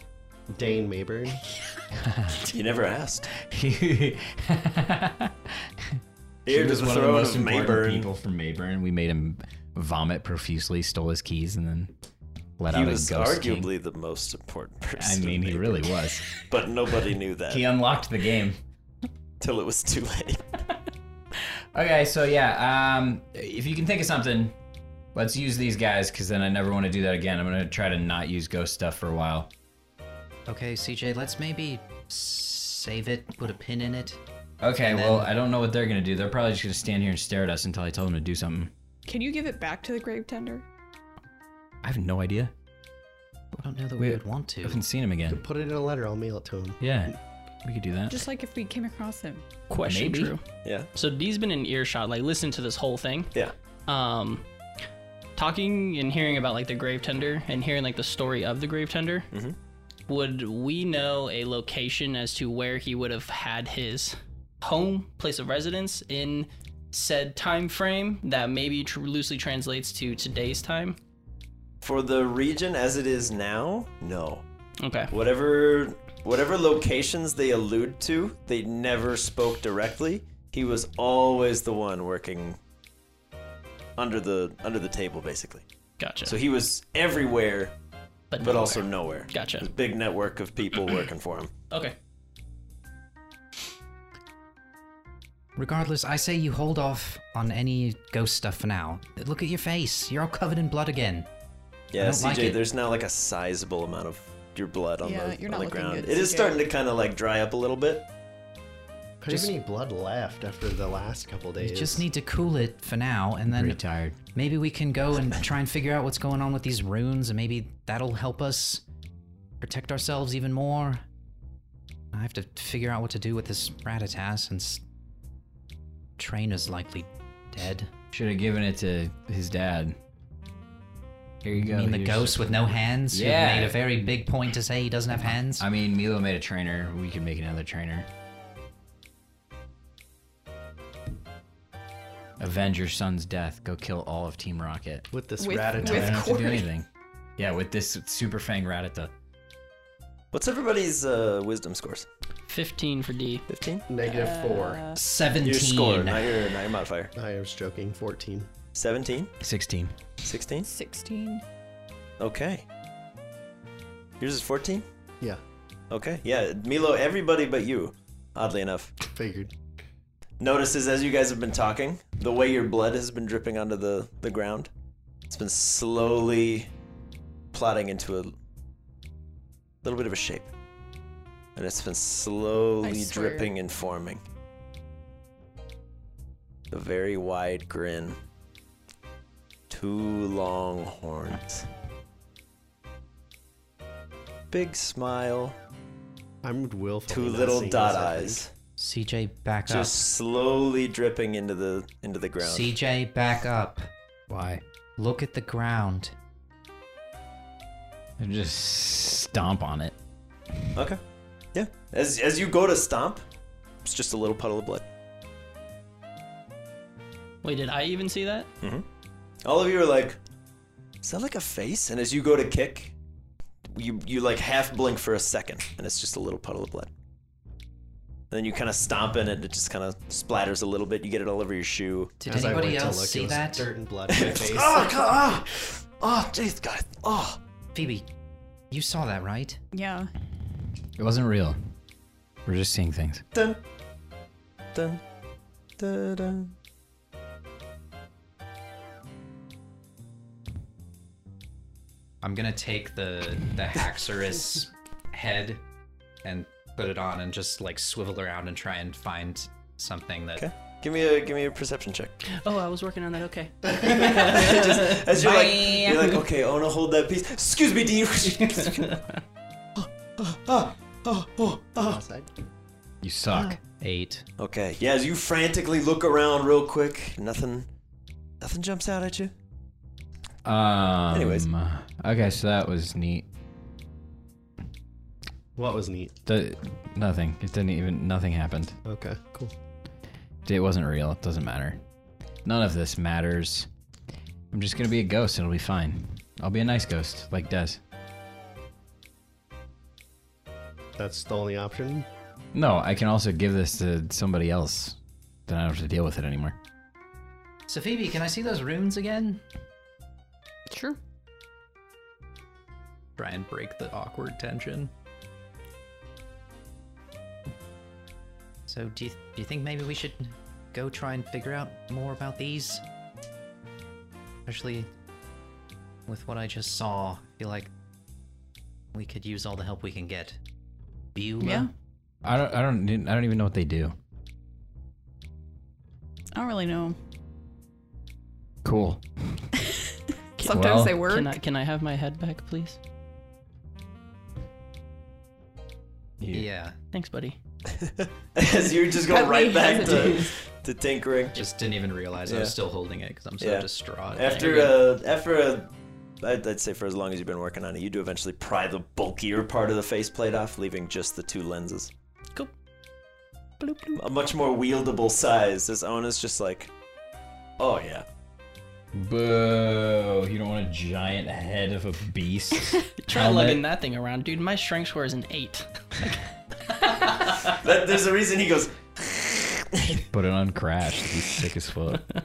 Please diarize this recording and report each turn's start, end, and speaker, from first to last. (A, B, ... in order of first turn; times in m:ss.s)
0:00.5-0:01.4 A
0:01.9-0:02.4 B
0:02.4-0:03.3 C
0:03.3-0:11.9 B
0:06.5-0:08.1 C
0:12.6-0:13.7 B
0:12.7-0:17.7 C
0:15.0-0:16.2 B
0:17.5-0:18.6 B
0:19.4-0:20.5 C
0:21.7-0:24.6 B
0:25.1-0:29.5 B
0:30.5-0:34.2 D
0:34.6-0:38.7 B
0:34.8-0:35.3 D
0:39.0-0:40.6 E
0:41.8-0:42.5 B
0:43.6-0:44.8 D
0:44.0-0:45.4 B
0:45.2-0:46.8 A
0:46.8-0:48.2 B
0:48.1-0:49.5 E
0:49.7-0:50.4 F
0:49.8-0:50.3 B
0:50.9-0:53.3 F
0:53.9-0:54.4 F
0:55.4-0:59.3 F
1:00.1-1:11.0 F
1:11.8-1:14.4 C
1:14.8-1:15.1 F
1:15.1-1:22.6 C
1:24.0-1:25.6 C
1:26.0-1:26.4 F
1:26.2-1:27.7 C
1:28.3-1:29.7 F
1:28.4-1:31.5 C
1:35.6-1:41.3 D
1:41.9-1:48.0 C
1:42.0-1:42.6 D
1:45.0-1:46.6 E
1:49.2-1:52.0 A
1:51.6-1:53.8 D
1:53.5-1:54.2 B
1:54.3-1:58.8 D
1:59.6-2:01.0 D
2:02.1-2:04.8 D
2:06.2-2:07.9 D
2:08.1-2:10.0 B
2:11.4-2:13.8 B
2:11.7-2:15.7 D
2:15.6-2:18.1 B
2:22.4-2:25.1 B
2:25.1-2:26.3 A
2:25.4-2:26.7 E
2:25.7-2:26.8 B
2:27.4-2:29.1 B
2:30.3-2:32.1 C
2:32.5-2:33.4 F
2:33.5-2:33.8 C
2:33.9-2:34.8 A
2:34.0-2:35.0 E
2:34.9-2:36.4 D
2:35.4-2:37.1 C
2:37.1-2:38.5 A
2:38.7-2:39.3 C
2:39.4-2:40.0 B
2:40.2-2:40.7 C
2:40.6-2:41.4 E
2:42.2-2:42.6 C
2:44.2-2:44.8 C
2:45.9-2:48.9 C
2:49.0-2:49.5 A
2:50.4-2:54.7 C
2:55.3-2:56.7 C
2:57.5-2:58.3 C
2:59.8-3:00.5 C
3:01.6-3:04.2 C
3:02.8-3:03.5 E
3:06.7-3:08.2 C
3:09.7-3:11.7 C
3:14.5-3:15.6 C
3:16.4-3:18.4 A
3:17.1-3:18.5 C
3:18.8-3:20.1 D
3:19.7-3:22.7 C
3:22.4-3:23.9 D
3:24.3-3:24.6 B
3:25.0-3:26.1 D
3:28.2-3:30.0 B
3:30.7-3:31.0 C
3:31.5-3:33.2 C
3:33.8-3:34.8 C
3:37.4-3:38.5 F
3:38.6-3:38.8 C
3:39.4-3:40.2 C
3:41.0-3:42.9 C
3:43.6-3:46.9 C
3:48.3-3:52.1 C
3:52.2-3:53.7 D
3:52.2-3:55.4 A
3:54.1-3:57.4 C
3:57.7-3:58.1 D
3:58.7-3:59.6 D
3:59.7-4:00.1 E
4:01.0-4:01.6 B
4:02.4-4:03.2 B
4:03.3-4:03.6 C
4:04.7-4:05.0 C
4:05.8-4:06.5 C
4:12.2-4:15.6 D
4:16.2-4:20.4 D
4:20.4-4:22.2 C
4:22.2-4:25.1 F
4:23.7-4:29.0 C
4:25.3-4:26.0 D
4:28.6-4:29.2 F
4:29.8-4:32.0 C
4:31.7-4:32.3 A
4:33.0-4:33.6 B
4:33.8-4:34.2 D
4:34.4-4:37.7 C
4:38.4-4:39.3 C
4:40.4-4:43.2 B
4:41.1-4:41.5 C
4:45.6-4:46.1 A
4:46.3-4:48.8 B
4:48.8-4:49.5 A
4:50.4-4:51.8 B
4:52.4-4:53.7 B
4:54.5-4:57.8 B
5:01.0-5:02.1 A
5:02.5-5:06.6 B
5:07.7-5:09.4 D
5:10.7-5:11.0 E
5:13.2-5:14.9 D
5:18.7-5:22.8 D
5:24.4-5:24.9 D
5:26.1-5:27.7 D
5:28.9-5:30.4 D
5:31.1-5:31.7 D
5:31.4-5:31.7 E
5:32.2-5:34.0 B
5:36.3-5:37.0 E
5:38.6-5:39.5 B
5:40.4-5:41.4 E
5:40.4-5:42.8 F
5:40.5-5:40.9 B
5:46.2-5:46.5 B
5:46.3-5:46.8 D
5:46.9-5:47.4 F
5:47.8-5:51.4 C
5:49.0-5:50.3 E
5:51.3-5:54.5 D
5:52.3-5:52.5 C
5:53.4-6:01.9 C
5:54.2-5:54.8 F
6:03.6-6:04.0 F
6:04.0-6:06.7 C
6:07.6-6:08.0 C
6:08.9-6:13.6 B
6:13.0-6:16.2 F
6:17.4-6:20.0 C
6:20.1-6:22.1 B